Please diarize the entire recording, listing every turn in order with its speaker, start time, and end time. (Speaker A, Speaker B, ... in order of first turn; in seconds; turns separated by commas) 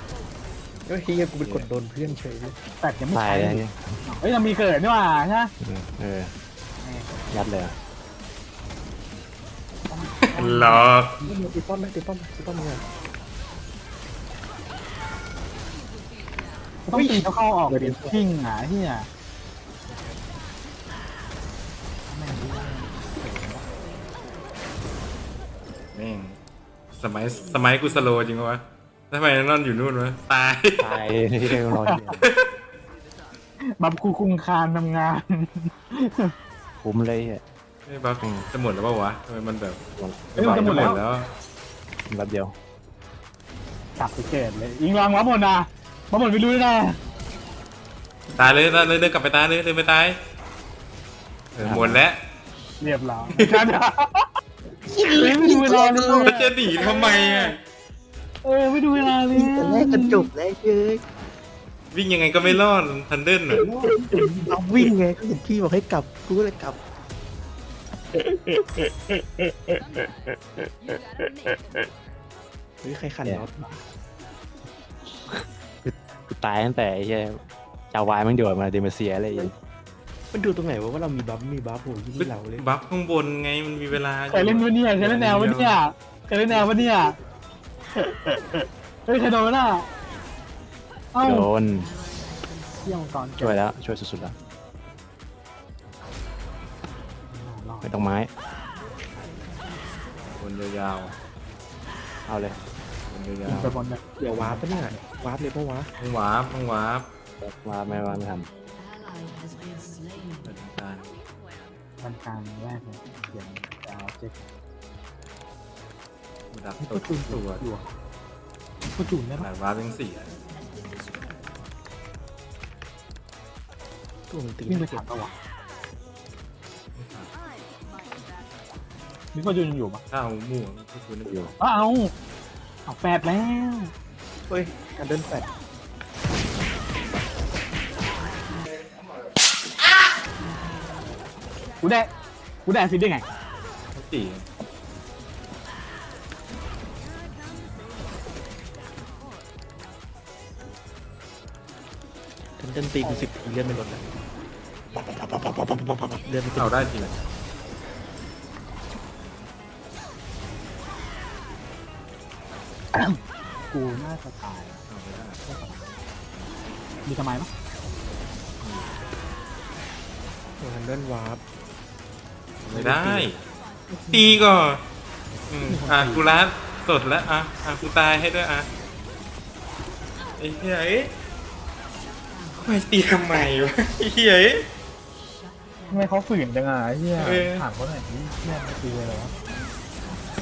Speaker A: 0.8-2.6, Speaker B: 2.8-5.5, Speaker C: 3.1-3.8, Speaker C: 5.6-6.3, Speaker B: 6.8-7.1, Speaker C: 7.3-7.7, Speaker B: 9.9-11.3, Speaker D: 10.2-11.2, Speaker A: 11.2-12.8, Speaker B: 16.9-19.1, Speaker A: 16.9-18.2, Speaker B: 22.1-23.6, Speaker D: 25.9-26.4, Speaker D: 26.9-30.9, Speaker C: 30.8-32.1, Speaker B: 31.9-32.2, Speaker D: 32.2-32.5, Speaker B: 33.6-36.3, Speaker C: 36.8-37.4, Speaker D: 37.9-39.8, Speaker C: 38.2-38.5, Speaker C: 40.0-40.9, Speaker D: 40.3-41.3, Speaker B: 40.4-41.0, Speaker C: 42.1-42.5, Speaker B: 44.0-47.0, Speaker D: 48.3-50.2, Speaker D: 51.5-52.2, Speaker C: 51.6-52.0, Speaker B: 52.8-54.4, Speaker A: 54.8-56.3, Speaker B: 55.0-57.6, Speaker D: 56.1-57.6, Speaker B: 58.4-60.3, Speaker A: 59.3-61.0, Speaker D: 61.9-63.6, Speaker A: 63.5-66.8, Speaker B: 63.6-64.3, Speaker B: 68.2-70.0, Speaker B: 70.9-71.9, Speaker A: 72.8-73.6, Speaker C: 75.1-79.5, Speaker A: 80.3-82.6, Speaker D: 82.2-85.8, Speaker B: 84.3-87.2, Speaker A: 86.5-86.8, Speaker B: 88.0-89.9, Speaker B: 91.1-91.5, Speaker C: 91.2-91.9, Speaker B: 92.8-93.6, Speaker C: 93.4-94.3, Speaker B: 97.3-98.0, Speaker C: 97.8-98.3, Speaker D: 100.4-101.2, Speaker C: 102.2-102.6, Speaker D: 103.1-103.8, Speaker B: 103.5-105.0, Speaker A: 103.5-105.9, Speaker D: 106.0-107.1, Speaker C: 107.4-108.5, Speaker D: 110.4-111.1, Speaker B: 112.0-114.5, Speaker D: 116.5-117.6, Speaker B: 116.8-117.9, Speaker B: 118.9-119.5, Speaker D: 119.4-120.4, Speaker A: 124.3-125.0, Speaker B: 124.7-125.3, Speaker D: 127.0-127.3, Speaker B: 129.3-130.0, Speaker D: 130.1-131.5, Speaker C: 131.2-131.5, Speaker B: 131.6-132.1, Speaker B: 132.8-133.9, Speaker A: 134.5-135.5, Speaker B: 141.8-142.1, Speaker B: 142.6-143.2, Speaker D: 143.9-144.4, Speaker A: 152.6-154.0, Speaker B: 153.0-153.3, Speaker A: 155.2-156.9, Speaker D: 156.6-157.2, Speaker B: 162.9-164.8, Speaker D: 164.9-165.4, Speaker B: 165.4-165.9, Speaker B: 167.1-167.5, Speaker D: 168.6-168.9, Speaker A: 170.6-171.4, Speaker D: 172.6-173.4, Speaker A: 172.7-173.3, Speaker D: 174.1-174.8, Speaker D: 175.5-178.7, Speaker B: 175.7-176.3, Speaker D: 180.4-181.1, Speaker D: 182.6-184.7, Speaker B: 185.9-189.3, Speaker D: 187.2-187.6